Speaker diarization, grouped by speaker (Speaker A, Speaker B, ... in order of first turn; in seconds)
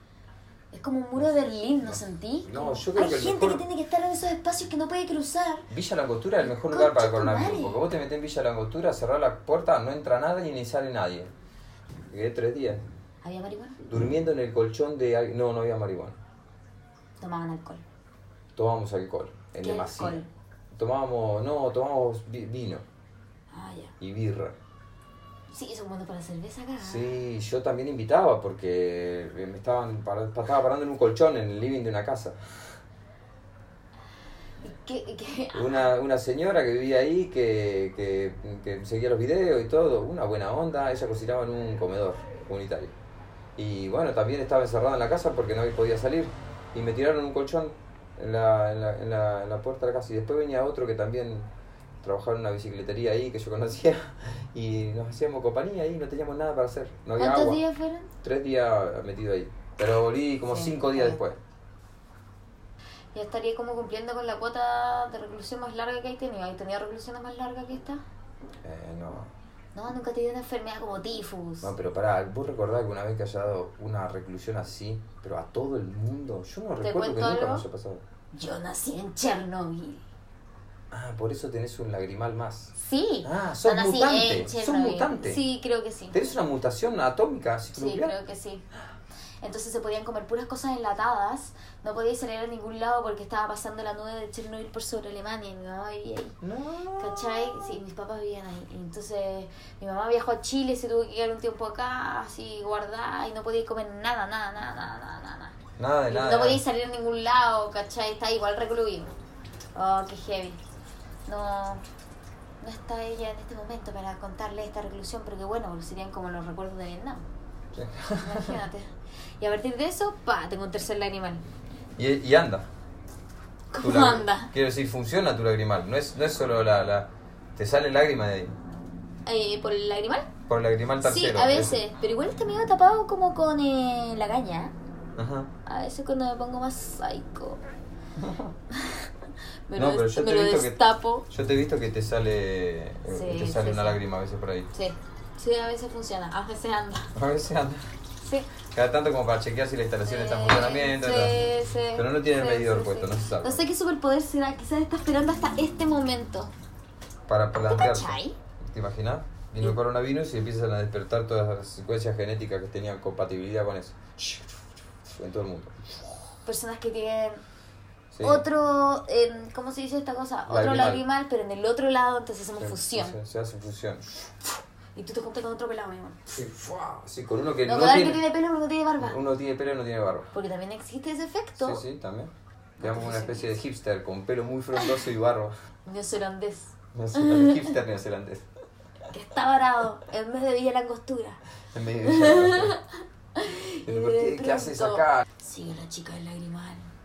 Speaker A: 0.7-5.7, 6.4-7.8, 13.2-13.8, 17.2-17.8, 19.6-20.3, 23.5-23.9, 25.5-27.2, 34.6-35.8, 57.2-58.1, 60.5-61.2, 63.1-68.0, 69.8-71.7, 76.8-77.7, 78.3-80.0, 82.7-86.2, 87.8-88.6, 89.4-96.4, 97.0-105.5, 106.1-109.1, 109.8-110.6, 111.3-111.8, 112.6-117.2, 118.2-121.4, 123.7-124.5, 129.2-130.3, 131.0-134.7, 135.7-137.6, 138.7-139.1, 139.7-141.3, 143.1-144.0, 144.7-147.1, 148.2-148.5, 150.1-156.5, 157.6-158.4, 166.4-167.4, 168.2-173.2, 174.9-176.4, 177.7-179.2, 180.3-181.8, 182.8-183.6, 185.9-187.7, 189.1-191.4, 192.1-196.9
Speaker B: 1.8-3.6, 5.7-11.3, 12.1-12.8, 13.8-16.2, 18.6-20.2, 20.7-22.8, 24.0-24.6, 26.8-32.4, 35.5-42.9, 43.6-51.5, 52.0-57.6, 58.2-61.4, 68.6-69.3, 71.6-78.0, 80.9-82.7, 83.2-85.4, 86.1-88.2, 96.4-97.6, 105.8-106.6, 117.7-118.6, 122.0-122.7, 123.8-128.6, 130.5-131.8, 135.2-135.5, 138.2-138.5, 139.8-144.7, 147.2-147.9, 148.7-153.6, 157.3-164.4, 165.1-166.0, 168.1-168.4, 170.5-171.0, 172.6-174.2, 176.3-178.2, 179.0-180.3, 181.6-185.5, 186.9-188.5, 191.7-192.8, 193.9-195.2